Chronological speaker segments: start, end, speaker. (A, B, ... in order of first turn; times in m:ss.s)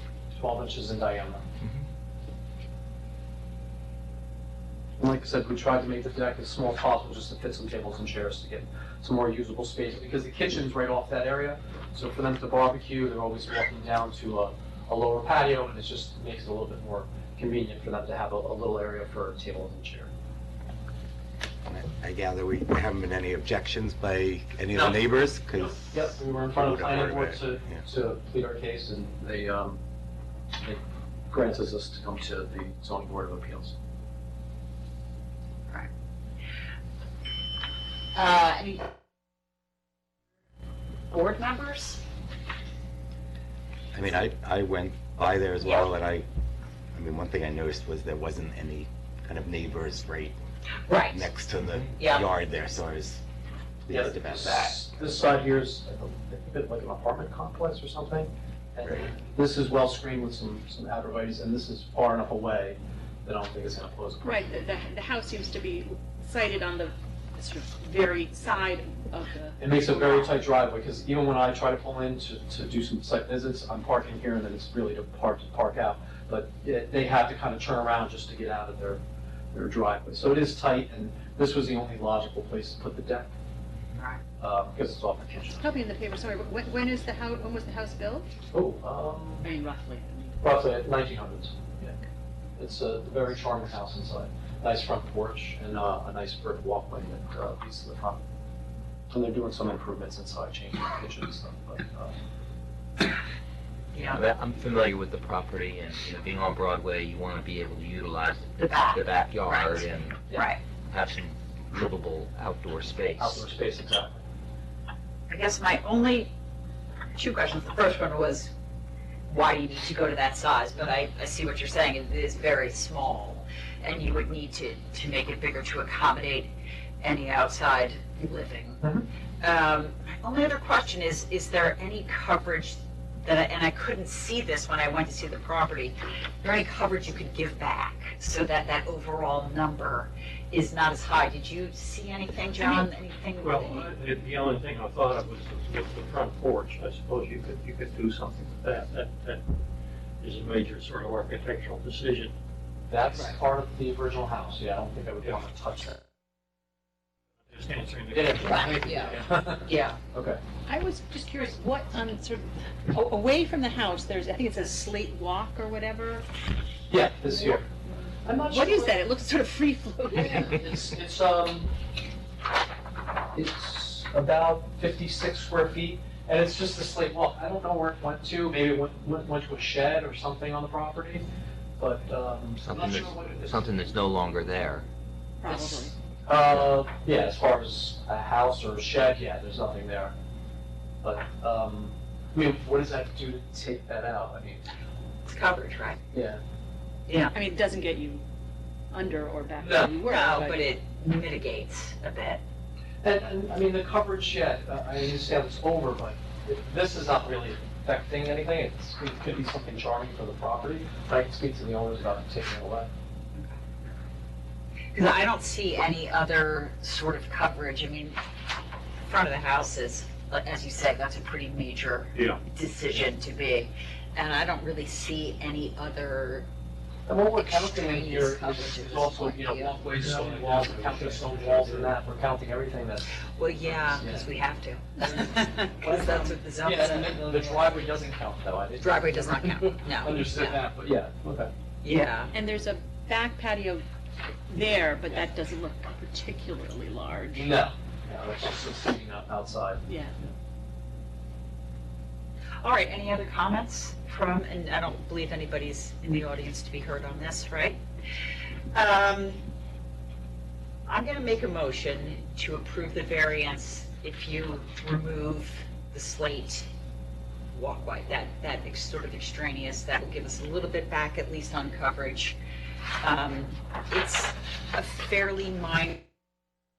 0:00.3-0:01.4 A
0:05.0-0:20.1 A
0:21.6-0:27.8 B
0:25.6-0:29.8 A
0:30.6-0:33.8 A
0:38.1-0:38.9 C
0:41.1-0:42.0 C
0:43.9-0:46.2 B
0:46.9-0:50.4 B
0:50.9-0:51.3 C
0:51.1-0:53.2 B
0:52.0-0:52.2 C
0:53.8-0:54.8 B
0:53.9-1:04.5 A
0:58.8-0:59.1 B
1:04.2-1:10.2 D
1:09.6-1:19.0 A
1:19.5-1:23.3 A
1:23.9-1:24.2 C
1:24.4-1:25.6 A
1:25.6-1:28.3 D
1:28.5-1:29.4 A
1:29.4-1:30.4 D
1:30.4-1:32.0 A
1:32.6-1:38.2 A
1:39.1-1:42.1 A
1:43.9-1:44.2 C
1:43.9-1:50.2 E
1:48.6-1:50.6 C
1:50.9-1:53.4 E
1:53.2-1:54.2 A
1:55.3-1:56.3 C
1:57.1-1:58.5 C
1:59.3-2:08.9 C
2:09.4-2:23.9 C
2:22.6-2:22.8 F
2:23.4-2:29.4 F
2:30.2-2:32.3 F
2:32.9-2:36.0 A
2:37.5-2:39.3 F
2:38.1-2:40.4 A
2:38.4-2:40.0 C
2:40.7-2:46.2 D
2:46.9-2:47.7 A
2:48.2-2:49.0 A
2:48.4-2:50.7 D
2:50.2-2:51.7 A
2:53.3-3:01.2 A
3:01.8-3:03.6 A
3:02.6-3:04.8 E
3:05.4-3:06.0 D
3:06.2-3:10.1 A
3:11.0-3:14.6 A
3:15.3-3:16.0 C
3:16.1-3:16.4 A
3:17.1-3:17.3 C
3:17.3-3:18.2 D
3:18.9-3:20.6 D
3:19.6-3:19.9 A
3:20.0-3:22.4 C
3:23.0-3:32.9 A
3:34.9-3:38.2 C
3:39.0-3:46.5 C
3:42.1-3:42.4 F
3:47.1-3:53.2 A
3:47.3-3:49.8 C
3:49.9-3:51.9 F
3:53.3-3:57.7 C
3:53.7-3:54.3 A
3:55.0-4:01.5 A
3:58.8-4:00.6 C
4:01.8-4:02.3 C
4:02.3-4:03.8 D
4:04.5-4:07.6 D
4:07.3-4:09.8 A
4:09.9-4:10.1 D
4:12.6-4:17.8 C
4:18.7-4:19.4 C
4:20.9-4:26.7 C
4:27.5-4:32.4 C
4:33.0-4:36.0 C